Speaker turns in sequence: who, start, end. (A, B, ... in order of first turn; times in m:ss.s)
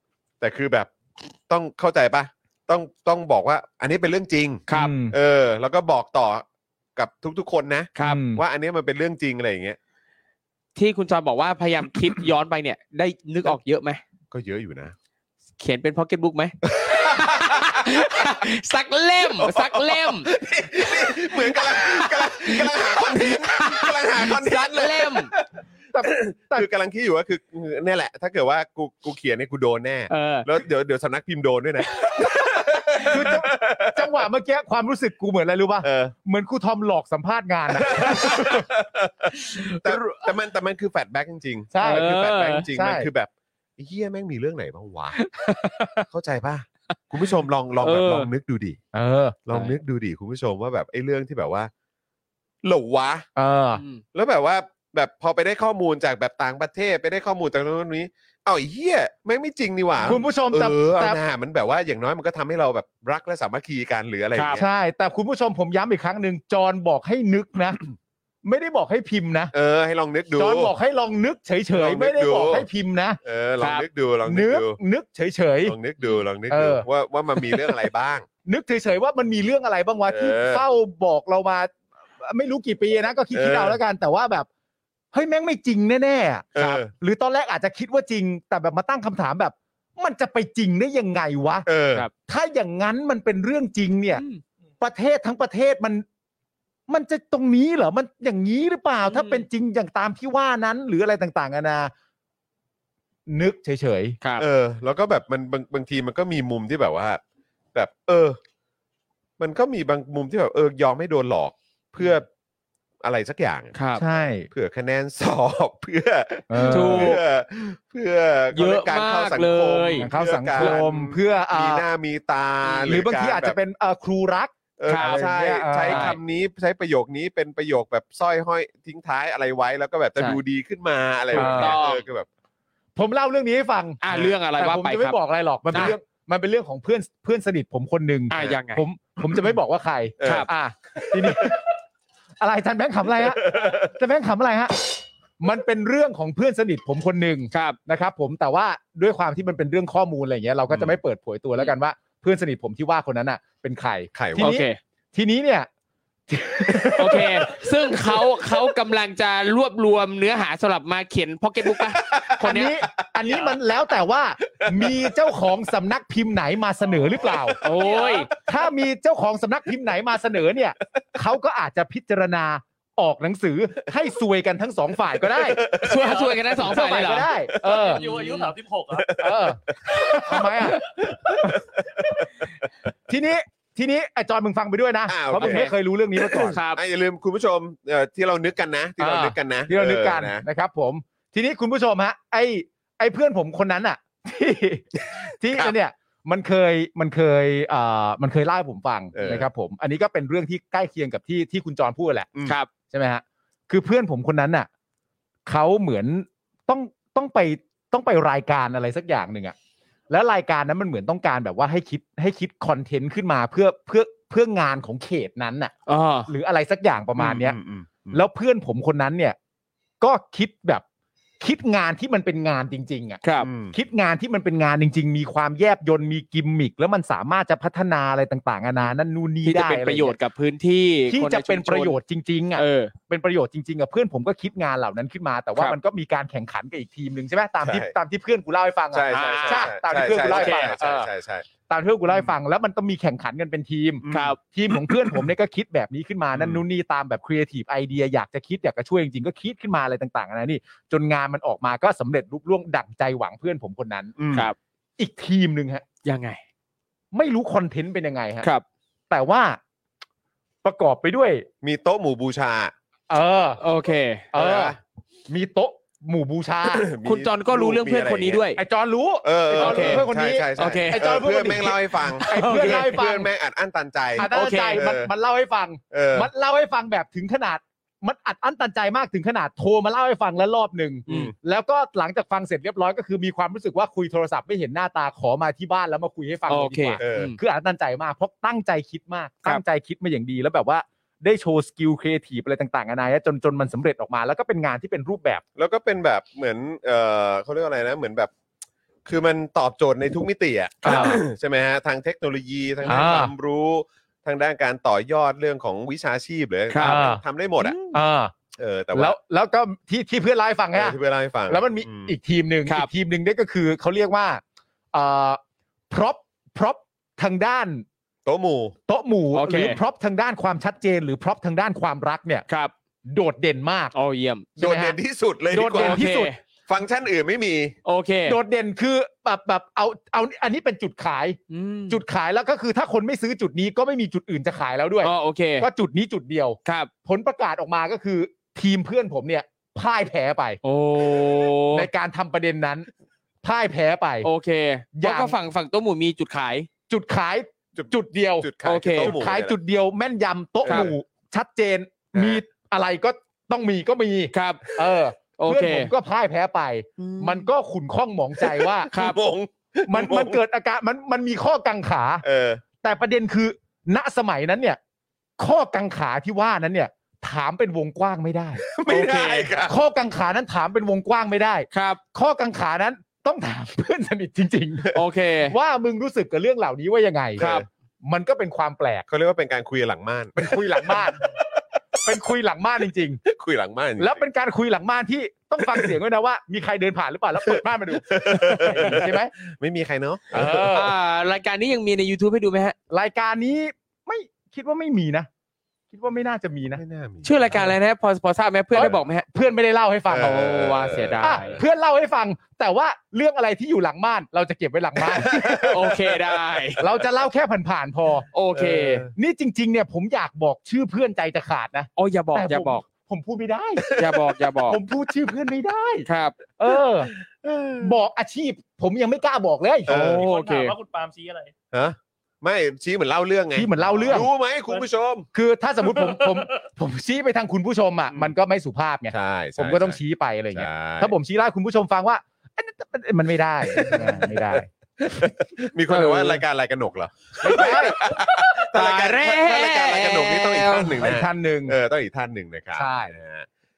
0:00.4-0:00.9 A
0:01.5-0:06.4 A
0:04.7-0:04.9 B
0:04.7-0:05.2 C
0:07.0-0:09.8 A
0:08.0-0:08.2 B
0:08.0-0:08.4 C
0:10.8-0:14.0 B
0:14.3-0:15.0 A
0:15.6-0:20.3 B
0:16.7-0:18.4 A
0:19.4-0:25.4 A
0:21.0-0:25.3 B
0:25.9-0:26.7 C
0:26.0-0:34.2 A
0:30.1-0:30.5 B
0:32.2-0:38.7 C
0:35.8-0:36.1 A
0:37.8-0:45.2 A
0:39.5-0:40.0 B
0:41.7-0:42.1 C
0:41.8-0:42.7 B
0:42.7-0:43.1 C
0:45.2-0:45.9 B
0:46.1-0:48.8 A
0:47.8-0:48.3 B
0:48.9-0:49.4 C
0:49.5-0:51.7 A
0:52.6-0:53.3 A
0:53.4-0:53.8 C
0:53.8-0:54.0 B
0:54.1-1:04.6 A
1:00.0-1:01.2 C
1:04.4-1:04.6 B
1:04.6-1:07.8 C
1:08.4-1:09.5 C
1:09.5-1:10.7 A
1:10.4-1:13.2 C
1:11.7-1:12.7 A
1:13.2-1:14.8 A
1:13.6-1:13.9 B
1:14.3-1:15.8 C
1:15.7-1:18.3 A
1:16.5-1:16.9 C
1:18.5-1:24.5 C
1:20.1-1:20.6 A
1:23.3-1:23.8 A
1:25.1-1:31.7 C
1:26.6-1:26.9 A
1:31.7-1:32.1 A
1:32.2-1:34.2 C
1:34.2-1:34.4 B
1:34.8-1:36.0 C
1:36.9-1:41.9 C
1:39.1-1:39.5 B
1:43.3-1:44.2 C
1:44.4-1:47.2 A
1:47.7-1:48.4 A
1:49.4-1:52.3 A
1:53.0-1:53.7 A
1:53.8-1:54.0 B
1:54.0-1:54.5 C
1:54.5-2:03.6 A
1:56.5-1:57.2 C
1:56.7-1:57.2 B
1:58.5-2:00.8 B
2:00.0-2:01.8 C
2:02.6-2:03.0 B
2:02.9-2:06.2 C
2:04.8-2:12.3 A
2:04.9-2:05.3 B
2:05.8-2:06.2 B
2:11.3-2:12.0 B
2:11.3-2:11.8 C
2:13.0-2:14.0 C
2:14.0-2:15.2 B
2:14.5-2:21.7 C
2:18.3-2:18.8 B
2:20.2-2:21.6 A
2:20.2-2:20.5 B
2:22.4-2:24.8 C
2:23.2-2:23.9 A
2:25.4-2:35.7 C
2:27.5-2:27.8 B
2:30.7-2:31.0 A
2:34.1-2:34.5 A
2:34.4-2:34.8 B
2:36.3-2:37.6 C
2:37.0-2:42.7 B
2:41.6-2:42.7 A
2:42.4-2:55.7 C
2:44.6-2:45.3 A
2:47.2-2:47.6 A
2:47.6-2:48.3 B
2:47.8-2:48.3 D
2:55.2-2:56.3 A
2:55.8-2:57.3 B
2:56.1-2:56.4 D
2:56.6-2:58.0 C
2:57.7-2:59.2 D
2:57.8-2:58.5 B
2:58.9-3:02.3 A
2:59.2-3:01.6 C
3:03.1-3:06.6 C
3:05.1-3:10.4 A
3:05.4-3:05.7 B
3:06.5-3:06.8 B
3:09.0-3:22.3 C
3:19.2-3:19.5 A
3:22.9-3:24.7 C
3:25.5-3:29.6 C
3:30.1-3:35.7 C
3:35.9-3:36.3 B
3:36.3-3:37.6 C
3:37.2-3:38.2 A
3:38.1-3:39.4 C
3:40.0-3:40.8 C
3:41.4-3:50.2 C
3:43.2-3:43.5 B
3:43.4-3:43.8 A
3:49.4-3:52.0 B
3:51.1-4:01.1 C
3:52.6-3:52.9 B
3:57.6-3:57.9 A
3:58.9-4:01.5 A
3:59.1-4:00.7 B
4:01.7-4:14.1 C
4:04.0-4:04.4 A
4:04.1-4:04.4 B
4:06.3-4:06.6 A
4:14.2-4:14.5 A
4:15.0-4:15.8 C
4:16.0-4:16.4 B
4:17.1-4:18.5 C
4:19.1-4:19.6 C
4:20.6-4:21.5 C
4:21.6-4:22.7 A
4:23.1-4:23.6 C
4:23.6-4:24.3 B
4:24.3-4:24.8 C
4:24.3-4:24.8 A
4:25.3-4:26.9 C
4:26.6-4:28.4 A
4:27.0-4:28.6 B
4:28.6-4:33.3 C
4:29.2-4:35.1 A
4:29.6-4:30.0 B
4:30.6-4:31.0 B
4:32.2-4:33.0 B
4:34.2-4:34.8 B
4:34.2-4:55.4 C
4:35.9-4:36.3 A
4:41.1-4:41.3 B
4:41.1-4:41.3 A
4:46.5-4:47.4 B
4:47.0-4:47.3 A
4:55.6-4:58.3 A
4:59.1-5:07.8 A
5:00.8-5:01.2 C
5:00.9-5:01.1 B
5:02.9-5:03.3 C
5:06.7-5:07.0 B
5:06.8-5:08.3 C
5:08.6-5:09.2 A
5:08.9-5:14.4 C
5:10.7-5:12.2 A
5:14.9-5:17.8 C
5:18.3-5:18.8 A
5:18.9-5:22.4 C
5:19.3-5:19.8 B
5:23.1-5:23.9 C
5:23.9-5:24.5 B
5:24.6-5:25.0 C
5:24.6-5:26.1 A
5:25.5-5:26.3 C
5:25.6-5:26.4 B
5:26.7-5:27.8 A
5:27.8-5:28.4 B
5:28.3-5:31.4 C
5:31.5-5:32.0 B
5:31.9-5:40.6 C
5:35.0-5:35.7 B
5:40.6-5:41.9 B
5:41.7-5:42.9 C
5:43.4-5:44.3 C
5:44.2-5:46.7 B
5:45.0-5:45.4 C
5:46.9-5:48.5 C
5:47.8-5:49.6 A
5:48.6-5:49.2 B
5:49.0-5:58.9 C
5:50.6-5:50.9 A
5:50.7-5:50.9 B
5:52.1-5:52.4 A
5:54.3-5:54.7 B
5:55.4-5:55.9 B
5:57.0-5:57.4 B
5:58.4-6:00.4 A
5:58.9-5:59.2 B
5:59.9-6:02.2 C
6:02.2-6:02.6 A
6:02.8-6:04.8 C
6:05.4-6:08.7 C
6:08.6-6:09.8 A
6:08.9-6:09.5 B
6:09.6-6:14.9 C
6:11.7-6:12.0 B
6:14.9-6:15.6 B
6:15.5-6:17.4 C
6:17.4-6:17.7 A
6:17.4-6:17.7 B
6:18.0-6:19.1 C
6:19.1-6:22.0 A
6:20.4-6:21.2 C
6:22.0-6:23.2 C
6:23.2-6:24.2 A
6:24.0-6:29.3 C
6:25.6-6:25.9 A
6:27.5-6:30.7 A
6:30.3-6:30.9 C
6:30.7-6:32.8 B
6:32.9-6:35.3 C
6:35.9-6:36.8 C
6:36.8-6:37.7 A
6:37.2-6:39.3 B
6:38.7-6:40.4 C
6:40.1-6:41.6 A
6:40.2-6:41.6 B
6:41.2-6:45.8 C
6:45.0-6:46.8 A
6:45.6-6:46.8 B
6:46.8-6:53.9 C
6:48.3-6:49.0 B
6:48.6-6:49.1 A
6:52.0-6:52.8 B
6:53.8-6:54.2 A
6:54.0-6:54.8 B
6:54.7-6:56.1 C
6:56.1-6:56.4 B
6:56.6-6:57.1 C
6:56.7-6:58.0 A
6:57.8-6:59.9 C
6:59.9-7:00.3 A
6:59.9-7:00.8 B
7:00.2-7:01.5 D
7:01.7-7:05.3 A
7:03.6-7:04.3 C
7:05.3-7:14.7 C
7:06.0-7:06.4 D
7:09.1-7:10.0 A
7:10.5-7:11.2 A
7:13.8-7:23.5 A
7:15.9-7:16.4 C
7:17.4-7:18.0 C
7:18.6-7:21.0 B
7:21.0-7:21.8 C
7:22.8-7:23.2 C